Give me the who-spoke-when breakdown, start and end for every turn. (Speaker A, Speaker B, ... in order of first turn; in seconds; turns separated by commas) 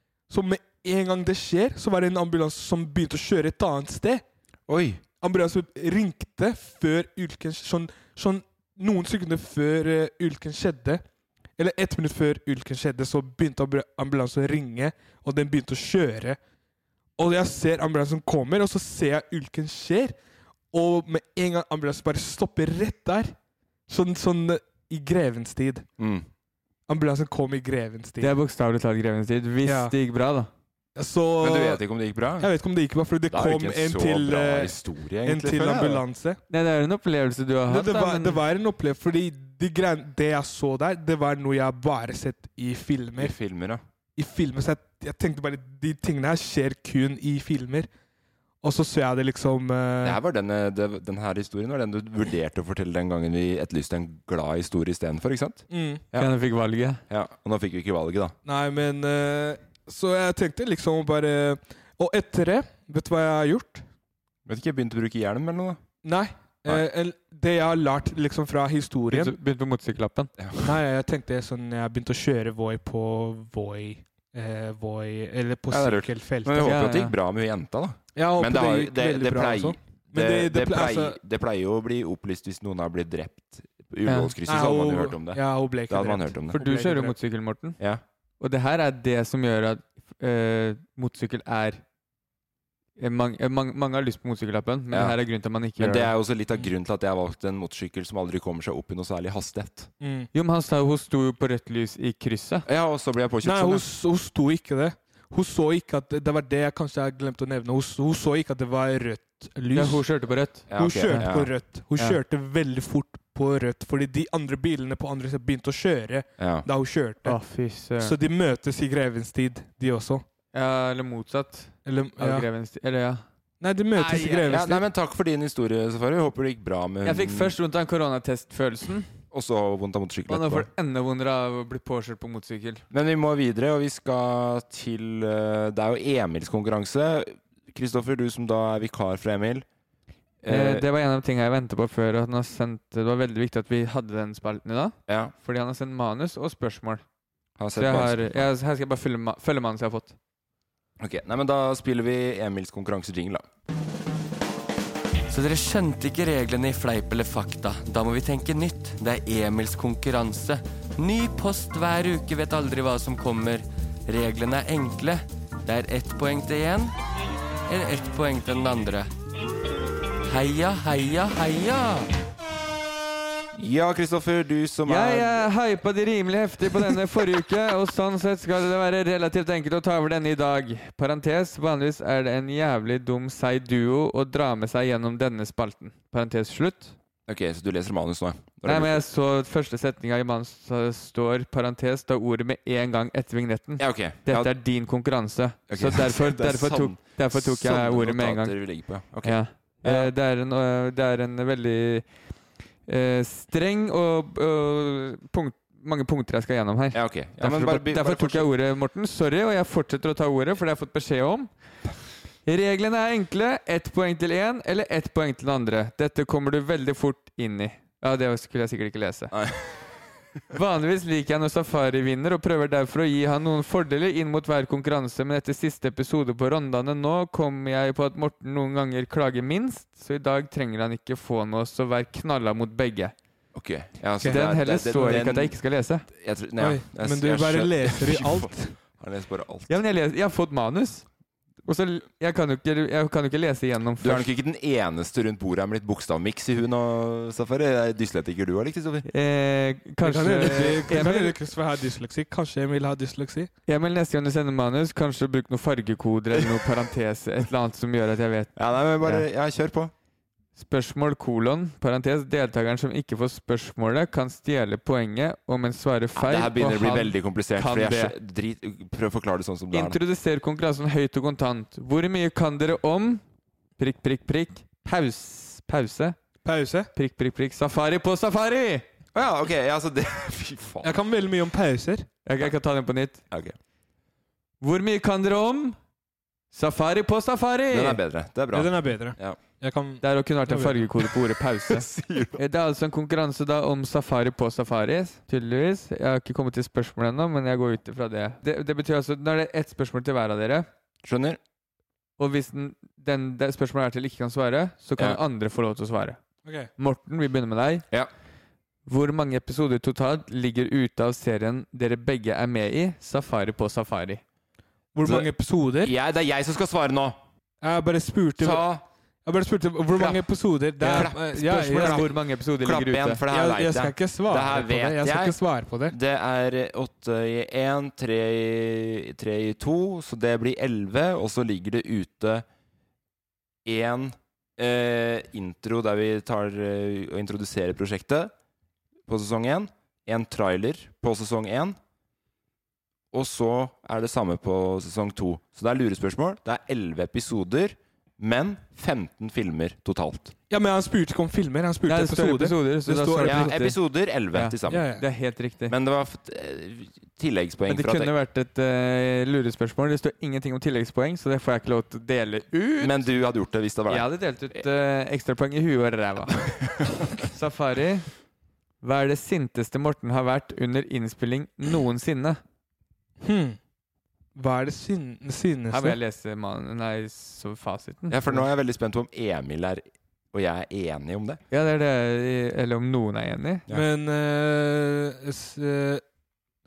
Speaker A: 0.3-4.2, Speaker B: 4.7-5.0, Speaker A: 5.2-11.0, Speaker A: 11.6-16.4, Speaker A: 17.2-20.1, Speaker A: 20.7-23.3, Speaker A: 23.9-25.9, Speaker B: 26.0-26.3, Speaker A: 26.9-28.4, Speaker C: 28.2-30.5, Speaker A: 29.6-29.9, Speaker A: 31.0-31.8, Speaker B: 31.4-32.5, Speaker A: 32.4-36.4, Speaker B: 33.3-36.0, Speaker C: 36.5-38.4, Speaker A: 37.7-43.3, Speaker B: 43.2-43.8, Speaker A: 44.2-47.9, Speaker A: 48.6-50.2, Speaker B: 50.0-56.3, Speaker A: 55.7-56.0, Speaker C: 56.2-57.0, Speaker B: 57.1-58.3, Speaker A: 58.5-63.8, Speaker B: 64.5-65.8, Speaker A: 66.0-69.4, Speaker C: 69.1-70.3, Speaker A: 70.6-76.7, Speaker B: 75.7-86.5, Speaker C: 76.6-77.2, Speaker A: 78.2-81.2, Speaker C: 84.1-84.3, Speaker A: 84.5-87.1, Speaker C: 86.5-87.8, Speaker C: 88.4-91.8, Speaker C: 93.0-96.1, Speaker B: 94.9-95.2, Speaker B: 95.8-99.9, Speaker A: 100.0-100.3, Speaker C: 100.3-102.7, Speaker B: 102.7-103.8, Speaker A: 103.4-110.0, Speaker C: 109.7-111.3, Speaker B: 110.7-111.5, Speaker A: 110.8-117.4, Speaker B: 116.4-116.7, Speaker C: 117.2-118.2, Speaker A: 118.0-120.2, Speaker C: 120.5-123.2, Speaker A: 121.9-122.5, Speaker A: 123.6-124.8, Speaker C: 124.0-124.6, Speaker B: 124.0-127.5, Speaker C: 127.0-129.1, Speaker B: 129.3-130.7, Speaker C: 130.3-132.8, Speaker B: 132.9-139.7, Speaker B: 140.4-140.8, Speaker C: 140.5-147.0, Speaker B: 145.1-145.3, Speaker B: 147.6-148.5, Speaker C: 147.8-150.2, Speaker B: 151.0-153.5, Speaker D: 155.3-166.9, Speaker D: 167.7-169.1, Speaker D: 170.3-172.1, Speaker B: 173.6-175.5, Speaker C: 174.9-186.9, Speaker B: 187.3-189.0, Speaker C: 188.7-198.6, Speaker B: 193.8-194.5, Speaker B: 195.7-200.1, Speaker C: 199.2-202.1, Speaker C: 202.9-211.5, Speaker B: 206.9-208.5, Speaker C: 212.5-219.4, Speaker B: 219.3-219.7, Speaker C: 220.5-233.1, Speaker B: 233.6-235.6, Speaker C: 234.3-236.1, Speaker B: 236.1-239.7, Speaker A: 236.6-238.8, Speaker C: 239.7-241.1, Speaker C: 241.7-244.3, Speaker B: 244.0-249.1, Speaker C: 249.1-251.4, Speaker A: 250.0-253.5, Speaker C: 253.7-259.2, Speaker B: 258.6-259.9, Speaker C: 260.6-268.1, Speaker B: 266.1-270.0, Speaker C: 269.7-273.2, Speaker C: 273.8-276.2, Speaker A: 276.4-276.9, Speaker C: 276.9-278.9, Speaker B: 279.1-281.0, Speaker A: 280.8-282.1, Speaker C: 282.3-283.2, Speaker C: 284.6-285.8, Speaker C: 286.5-288.0, Speaker B: 287.7-289.4, Speaker A: 288.5-290.8, Speaker C: 290.0-300.7, Speaker B: 291.7-292.4, Speaker B: 301.0-301.4, Speaker C: 302.2-306.2, Speaker A: 306.4-306.7, Speaker C: 306.8-307.9, Speaker C: 308.9-314.2, Speaker A: 314.9-315.9, Speaker B: 315.0-315.3, Speaker B: 315.8-317.2, Speaker A: 317.6-318.7, Speaker B: 318.4-318.8, Speaker A: 319.2-322.1, Speaker B: 320.0-320.2, Speaker C: 320.8-323.2, Speaker B: 320.8-332.5, Speaker A: 323.3-325.9, Speaker B: 333.6-338.3, Speaker B: 339.1-341.8, Speaker B: 343.1-350.3, Speaker A: 350.5-353.6, Speaker C: 351.9-353.8, Speaker B: 353.2-354.9, Speaker C: 354.3-355.7, Speaker A: 354.7-355.0, Speaker B: 355.7-358.1, Speaker C: 357.7-363.1, Speaker B: 362.8-364.1, Speaker C: 363.9-366.4, Speaker C: 367.1-368.1, Speaker C: 368.8-372.4, Speaker A: 373.2-373.6, Speaker A: 374.4-376.0, Speaker C: 375.7-378.3, Speaker B: 378.1-381.4, Speaker C: 381.5-383.6, Speaker A: 383.7-386.0